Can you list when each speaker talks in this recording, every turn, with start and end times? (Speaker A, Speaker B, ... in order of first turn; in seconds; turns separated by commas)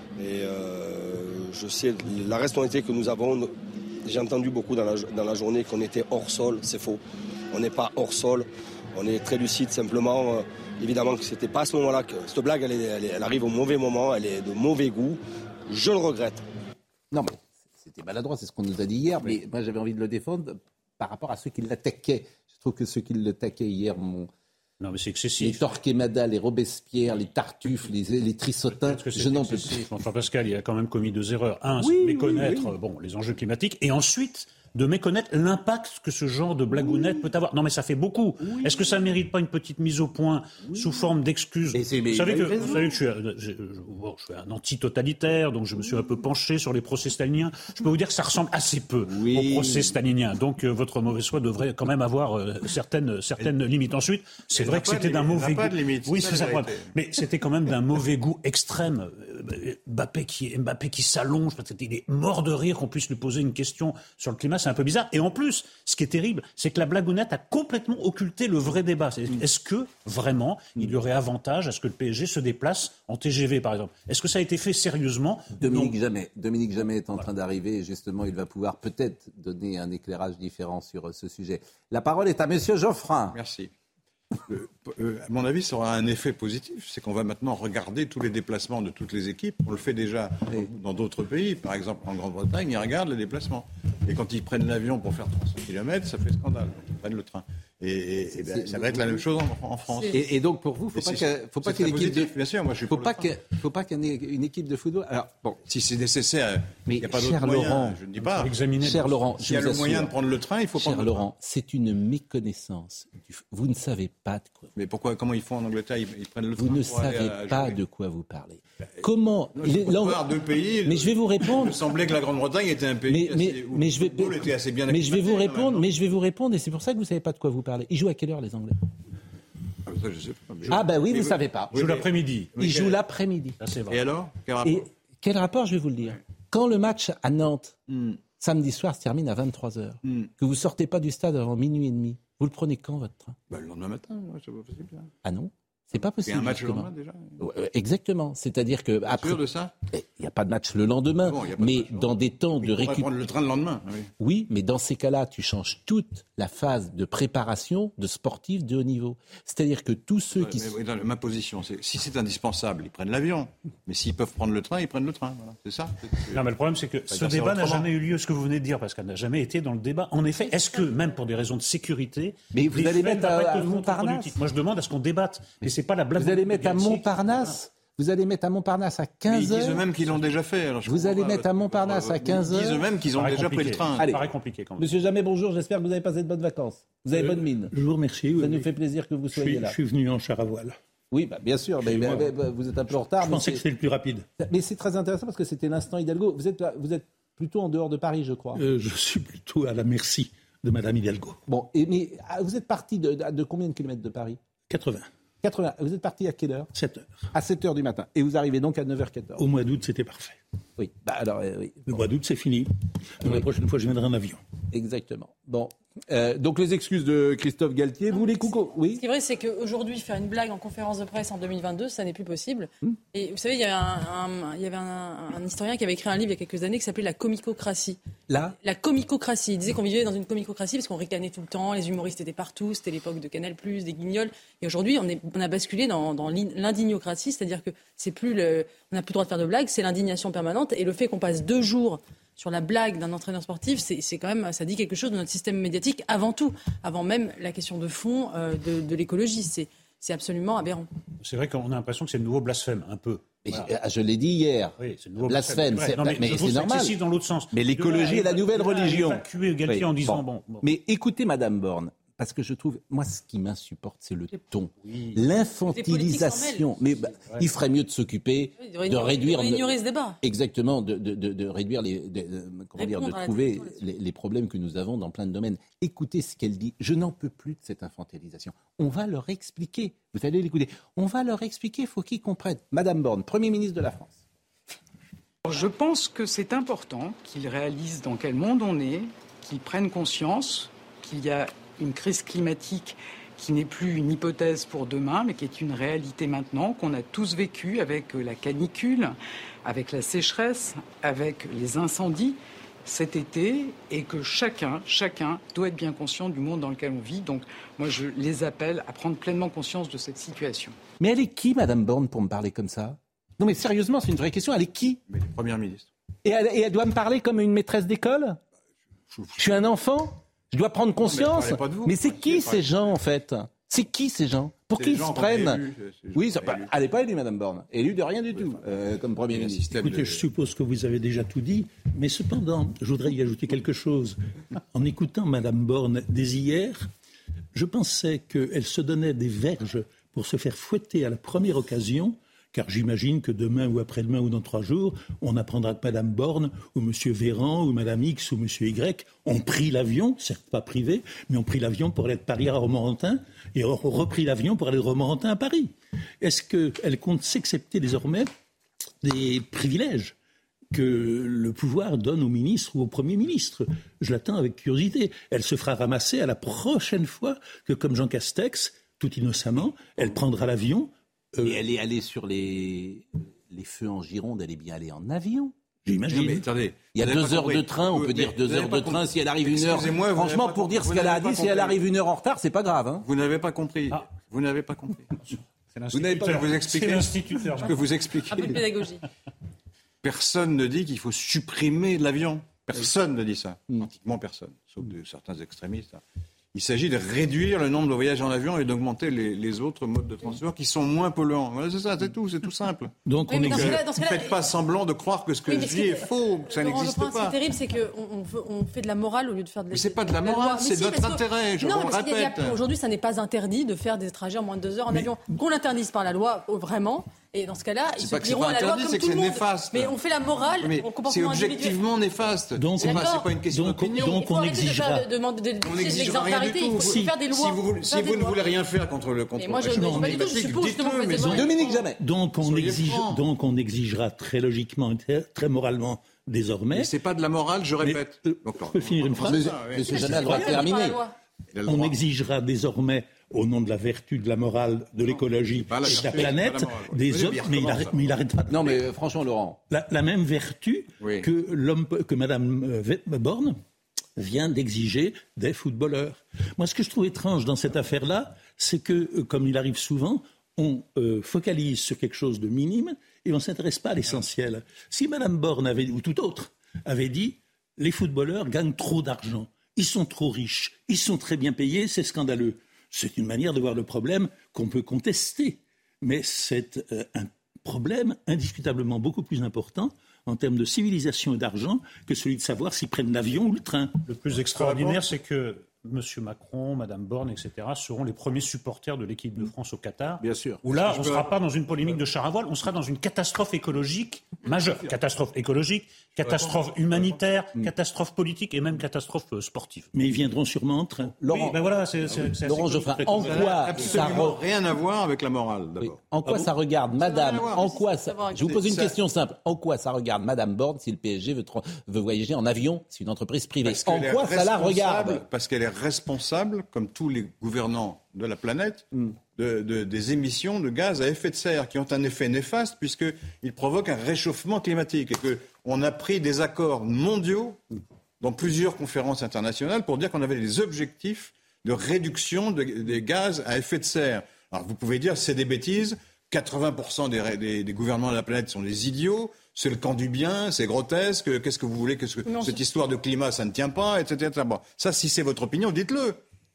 Speaker A: 0.2-3.5, Speaker A: 4.0-7.0, Speaker A: 7.5-16.4, Speaker B: 17.1-24.3, Speaker C: 24.8-25.8, Speaker B: 25.4-29.9, Speaker C: 28.8-75.9, Speaker B: 31.8-32.7, Speaker B: 36.7-37.3, Speaker B: 38.4-39.1, Speaker B: 40.7-41.0, Speaker B: 41.7-43.0, Speaker B: 49.0-50.0, Speaker D: 54.5-56.9, Speaker B: 75.6-83.4, Speaker D: 83.3-83.7, Speaker D: 84.5-100.3, Speaker B: 98.5-99.2, Speaker B: 100.1-102.3, Speaker D: 101.0-103.3, Speaker B: 102.9-105.6, Speaker D: 105.7-108.7, Speaker B: 106.9-108.0, Speaker C: 108.3-109.3, Speaker B: 108.8-110.2, Speaker D: 109.4-111.2, Speaker B: 110.8-114.7, Speaker D: 114.8-117.8, Speaker B: 116.6-120.3, Speaker D: 119.6-125.8, Speaker B: 120.9-121.8, Speaker B: 123.1-128.8, Speaker D: 129.9-133.0, Speaker B: 130.7-131.8, Speaker C: 131.7-132.6, Speaker B: 132.6-133.6, Speaker C: 133.6-134.0, Speaker D: 133.9-134.9, Speaker B: 134.6-137.8, Speaker D: 137.9-138.2, Speaker B: 138.4-143.4, Speaker D: 140.1-140.3, Speaker D: 143.5-145.1, Speaker B: 145.2-153.1, Speaker D: 146.2-147.4, Speaker D: 149.1-149.7, Speaker D: 151.2-154.1, Speaker B: 154.2-160.8, Speaker D: 160.3-166.4, Speaker C: 166.3-177.6, Speaker B: 172.5-174.4, Speaker B: 176.2-179.9, Speaker D: 179.3-184.1, Speaker B: 180.8-182.9, Speaker C: 183.1-184.9, Speaker B: 184.8-187.7, Speaker E: 187.1-188.7, Speaker B: 188.4-189.8, Speaker E: 189.4-190.8, Speaker B: 191.1-193.6, Speaker E: 191.8-192.3, Speaker E: 193.0-194.3, Speaker B: 194.4-198.6, Speaker E: 198.6-201.4, Speaker B: 201.5-204.4, Speaker E: 204.7-205.1, Speaker B: 205.4-206.7, Speaker E: 206.7-207.3, Speaker B: 207.3-209.4, Speaker E: 209.4-210.4, Speaker B: 210.8-212.0, Speaker E: 211.9-214.4, Speaker B: 214.7-219.0, Speaker F: 218.1-228.0, Speaker B: 228.3-228.6, Speaker F: 228.6-250.9, Speaker C: 251.2-253.7, Speaker B: 253.4-257.0, Speaker C: 254.8-260.6, Speaker B: 257.5-284.2, Speaker C: 264.9-265.2, Speaker F: 265.7-266.6, Speaker F: 268.6-270.2, Speaker F: 272.8-273.8, Speaker G: 285.4-310.8, Speaker B: 311.0-315.0, Speaker D: 315.1-315.9, Speaker B: 316.2-318.4, Speaker D: 319.1-319.4, Speaker B: 319.4-325.6, Speaker D: 321.0-322.8, Speaker D: 324.7-326.7, Speaker B: 326.1-329.6, Speaker D: 329.3-330.3, Speaker E: 329.8-336.9, Speaker E: 337.6-358.3, Speaker E: 359.0-360.1, Speaker E: 360.7-371.6, Speaker B: 371.4-375.5, Speaker E: 375.9-376.4, Speaker D: 376.0-381.8, Speaker B: 376.9-383.1, Speaker D: 383.0-385.2, Speaker C: 385.2-387.8, Speaker D: 385.9-388.6, Speaker F: 388.3-389.0, Speaker D: 390.0-396.0, Speaker D: 396.5-407.4, Speaker E: 403.1-403.9, Speaker F: 403.3-404.4, Speaker F: 405.5-421.8, Speaker D: 409.7-412.6, Speaker D: 418.0-424.2, Speaker E: 422.6-425.1, Speaker F: 422.8-423.3, Speaker F: 423.9-428.4, Speaker D: 425.6-433.2, Speaker E: 426.7-427.2, Speaker F: 429.4-431.6, Speaker E: 429.7-430.6, Speaker B: 431.3-432.0, Speaker E: 431.9-436.9, Speaker D: 436.7-440.5, Speaker E: 437.8-440.7, Speaker B: 439.2-441.0, Speaker F: 440.0-441.1, Speaker D: 441.5-442.0, Speaker E: 441.6-448.8, Speaker D: 445.1-448.2, Speaker B: 448.5-449.6, Speaker E: 449.7-453.6, Speaker D: 451.0-451.3, Speaker E: 454.2-484.0, Speaker C: 484.1-499.9, Speaker D: 484.6-485.0, Speaker B: 490.2-490.6, Speaker D: 490.7-491.3, Speaker D: 496.2-497.2, Speaker E: 499.9-501.1, Speaker B: 501.2-501.6, Speaker C: 501.3-504.2, Speaker B: 502.2-504.4, Speaker D: 503.1-506.0, Speaker B: 505.8-515.2, Speaker F: 507.0-508.6, Speaker D: 507.1-507.7, Speaker D: 508.3-509.0, Speaker D: 513.6-527.6, Speaker D: 528.2-546.2, Speaker F: 542.3-542.6